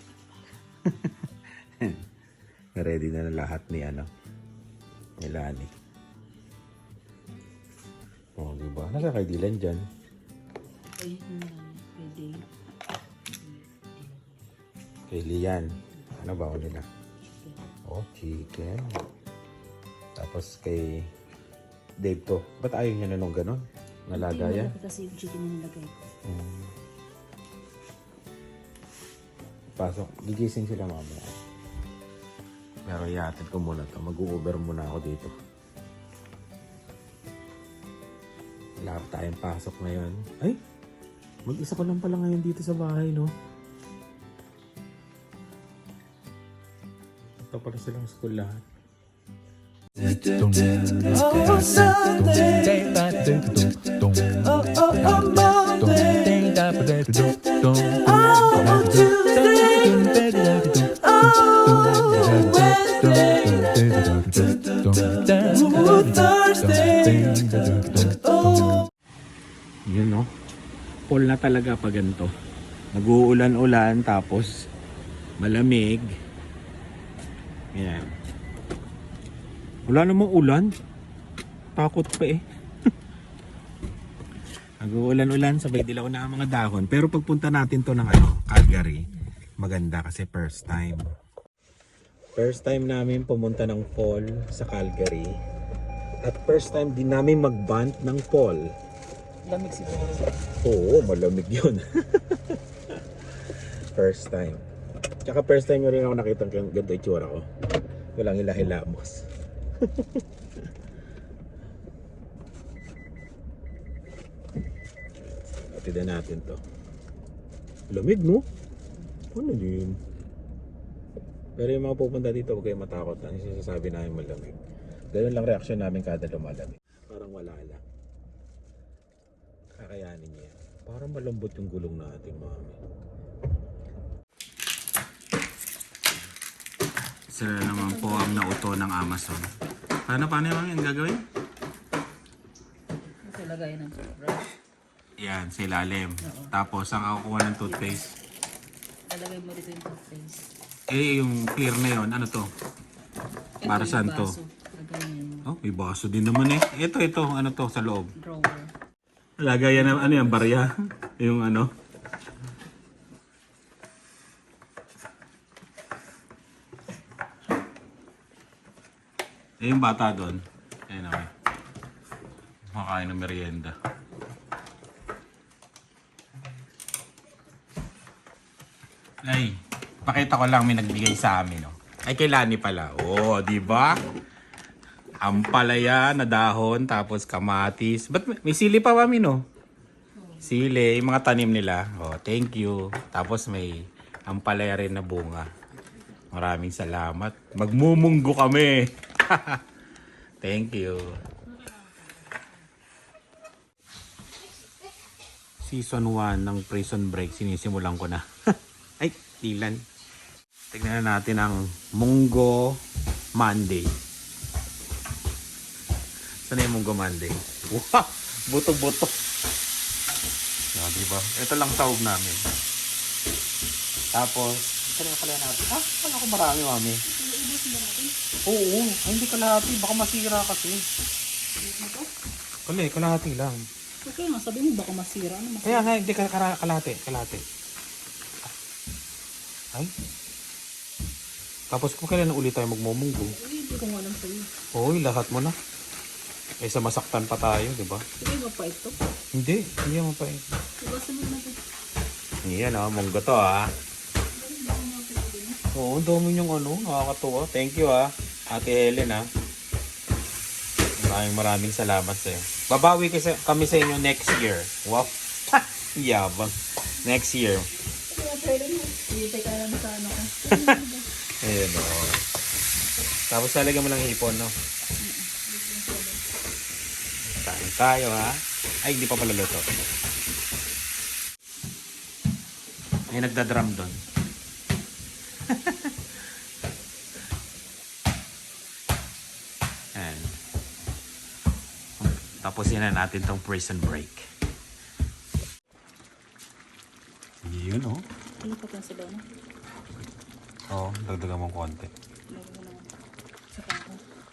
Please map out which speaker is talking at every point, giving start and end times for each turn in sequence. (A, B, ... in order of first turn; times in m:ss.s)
0:00.8-0:02.0 A
0:02.8-0:04.1 A
0:05.2-0:05.7 A
0:08.4-0:09.9 A
0:11.0-0:12.5 B
0:13.4-0:14.4 B
0:15.1-0:16.9 A
0:17.3-0:17.6 B
0:17.8-0:18.8 A
0:20.2-0:21.1 A
0:22.0-0:24.7 A
0:24.1-0:26.1 B
0:26.2-0:26.7 A
0:29.8-0:31.3 A
0:32.9-0:35.3 A
0:38.8-0:40.6 A
0:41.5-0:43.3 A
0:47.4-0:48.6 A
0:50.0-1:08.9 C
1:09.9-1:10.3 A
1:11.1-1:12.3 A
1:12.9-1:14.7 A
1:15.4-1:16.1 A
1:17.7-1:18.2 A
1:19.9-1:20.7 A
1:21.8-1:22.4 A
1:24.8-1:29.0 A
1:29.6-1:31.1 A
1:32.4-1:35.4 A
1:36.2-1:38.7 A
1:39.5-1:40.2 B
1:40.4-1:42.6 A
1:44.0-1:44.6 A
1:45.2-1:47.5 A
1:48.2-1:49.2 A
1:49.8-1:50.2 A
1:55.7-1:56.6 A
1:57.9-1:58.4 A
1:59.3-2:00.0 A
2:01.6-2:04.6 A
2:05.1-2:07.8 A
2:09.7-2:12.8 A
2:17.3-2:19.5 A
2:17.7-2:18.6 B
2:20.1-2:21.2 A
2:23.2-2:24.5 B
2:25.2-2:28.1 A
2:26.2-2:26.5 B
2:27.7-2:28.0 B
2:29.1-2:30.5 B
2:30.9-2:32.5 A
2:33.6-2:35.5 B
2:33.6-2:34.4 A
2:35.4-2:38.1 A
2:38.2-2:38.7 B
2:39.4-2:41.7 A
2:39.7-2:40.6 B
2:49.6-2:51.3 A
2:52.7-2:53.8 A
2:59.2-3:04.0 A
3:05.2-3:09.4 A
3:10.2-3:10.4 B
3:10.4-3:15.5 A
3:16.3-3:19.6 A
3:20.4-3:21.2 A
3:21.5-3:22.6 B
3:25.6-3:29.8 A
3:30.7-3:32.8 A
3:33.4-3:33.9 A
3:36.5-3:39.1 A
3:40.7-3:42.4 A
3:44.1-3:47.0 A
3:47.0-3:48.1 B
3:48.5-3:50.8 A
3:51.6-3:52.1 B
3:52.7-3:53.6 A
3:54.0-3:56.1 B
3:55.6-3:57.4 A
4:01.7-4:03.4 A
4:03.3-4:04.5 B
4:04.7-4:05.6 A
4:06.6-4:08.0 A
4:08.2-4:09.0 B
4:09.3-4:10.4 A
4:10.8-4:11.6 B
4:12.4-4:13.7 A
4:14.3-4:15.6 B
4:15.7-4:19.3 A
4:21.0-4:27.7 A
4:28.0-4:31.1 B
4:30.5-4:30.8 A
4:31.4-4:32.2 A
4:33.3-4:34.5 A
4:35.0-4:36.2 B
4:37.3-4:39.6 A
4:43.1-4:44.0 A
4:45.5-4:45.9 A
4:50.0-4:50.4 A
4:52.0-4:54.3 A
4:57.4-4:58.0 A
4:58.4-4:59.2 B
5:00.7-5:01.9 A
5:02.3-5:02.9 B
5:03.5-5:04.0 B